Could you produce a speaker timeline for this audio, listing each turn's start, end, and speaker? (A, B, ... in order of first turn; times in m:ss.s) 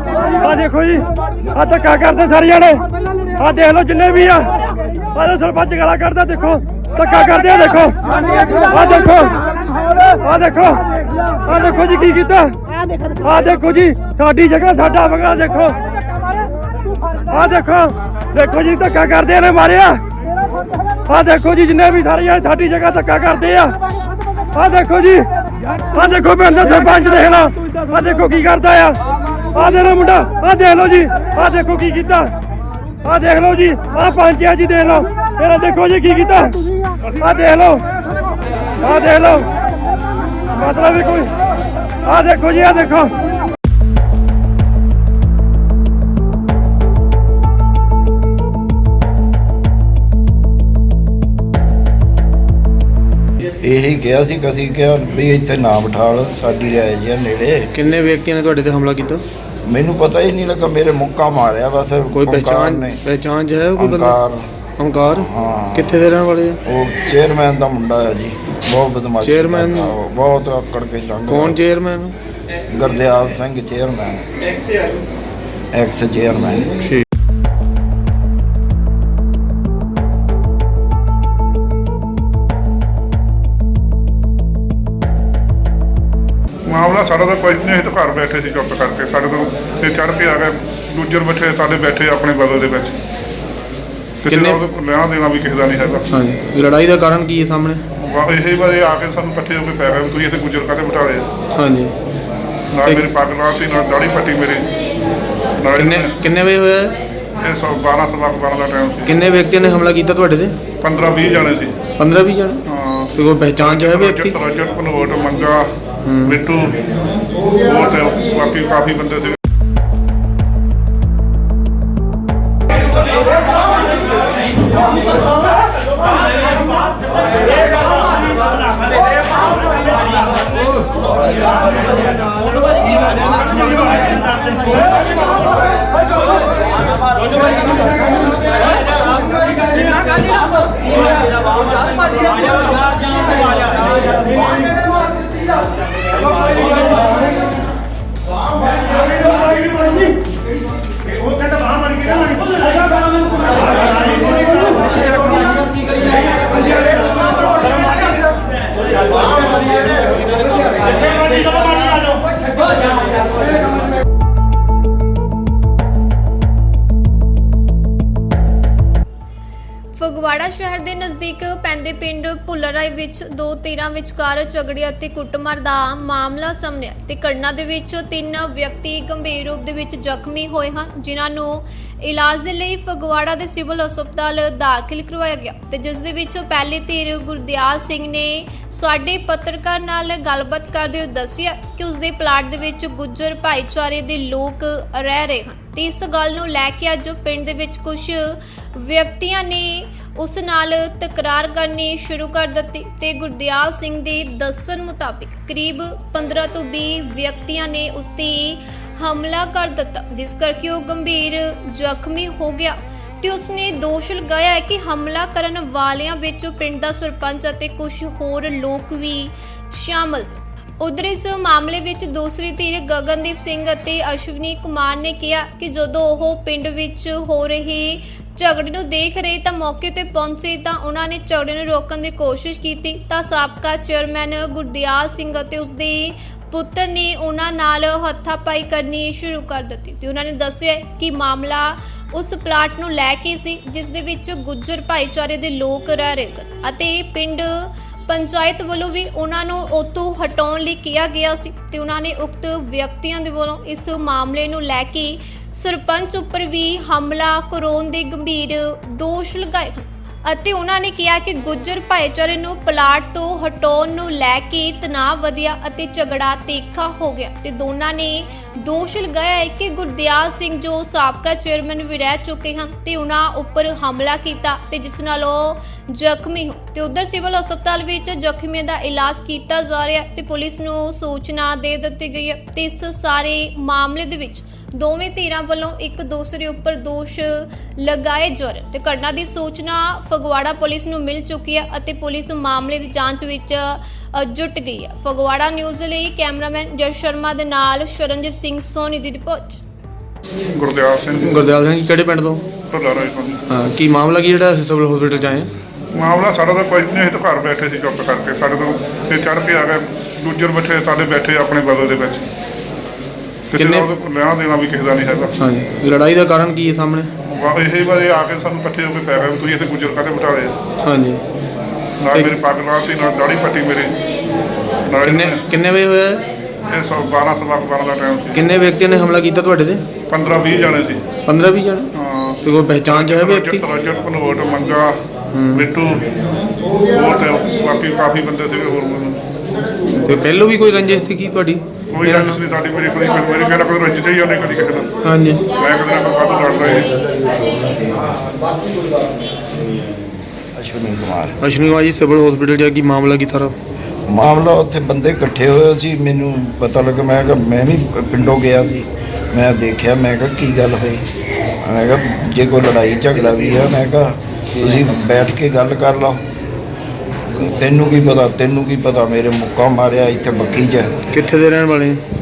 0:00.4-0:02.8 A
0:03.4-0:04.5 A
0:05.1-0:09.4 A
0:10.0-0:10.8 A
0:11.4-0:12.6 A
0:13.2-0:15.8 A
0:17.3-0:20.0 A
0:21.1-0:23.8 A
0:24.5-0:25.3 A
0:25.9-0:29.0 A
0:29.5-0:32.3 A
0:33.0-0:37.9 A
0:38.8-0:39.5 A
0:40.6-0:41.3 A
0:42.0-0:43.1 A
0:53.6-0:57.7 B
0:57.7-0:59.2 C
0:59.6-1:03.0 B
1:02.1-1:04.2 C
1:03.8-1:04.5 B
1:04.8-1:06.6 C
1:05.2-1:06.0 B
1:06.6-1:11.6 B
1:09.2-1:09.9 C
1:11.3-1:12.2 C
1:12.7-1:14.8 B
1:15.7-1:16.7 B
1:26.7-1:33.0 D
1:34.2-1:34.6 C
1:34.2-1:36.0 D
1:36.1-1:37.8 C
1:38.0-1:41.3 D
1:41.5-1:41.9 C
1:42.7-1:44.7 D
1:42.8-1:43.1 C
1:45.6-1:46.1 D
1:45.7-1:46.9 C
1:47.4-1:49.1 D
1:49.0-1:50.6 C
1:50.8-1:51.8 D
1:52.0-1:52.6 C
1:52.7-1:53.1 D
1:53.1-1:54.4 C
1:53.6-1:55.7 D
1:56.0-1:56.4 C
1:56.3-1:56.7 D
1:57.6-1:59.4 D
2:49.9-4:59.6 E
5:00.5-5:01.4 D
5:01.2-5:02.4 C
5:02.7-5:03.4 D
5:03.5-5:05.5 C
5:05.9-5:12.2 D
5:13.5-5:13.9 C
5:13.5-5:15.3 D
5:15.4-5:17.1 C
5:17.3-5:20.5 D
5:20.8-5:21.2 C
5:22.0-5:23.9 D
5:22.1-5:22.4 C
5:24.9-5:25.4 D
5:25.0-5:26.2 C
5:26.7-5:28.4 D
5:28.3-5:29.8 C
5:30.1-5:31.0 D
5:31.2-5:31.9 C
5:32.0-5:35.0 D
5:32.4-5:33.6 C
5:35.3-5:35.7 C
5:35.6-5:36.0 D
5:36.9-5:39.2 D
5:40.0-5:42.4 C
5:41.9-5:44.9 D
5:45.0-5:45.5 C
5:45.5-5:46.9 D
5:50.5-5:51.4 B
5:51.4-5:53.5 C
5:54.1-6:01.0 B
6:01.6-6:06.2 B
6:07.4-6:11.0 B
6:11.1-6:12.0 C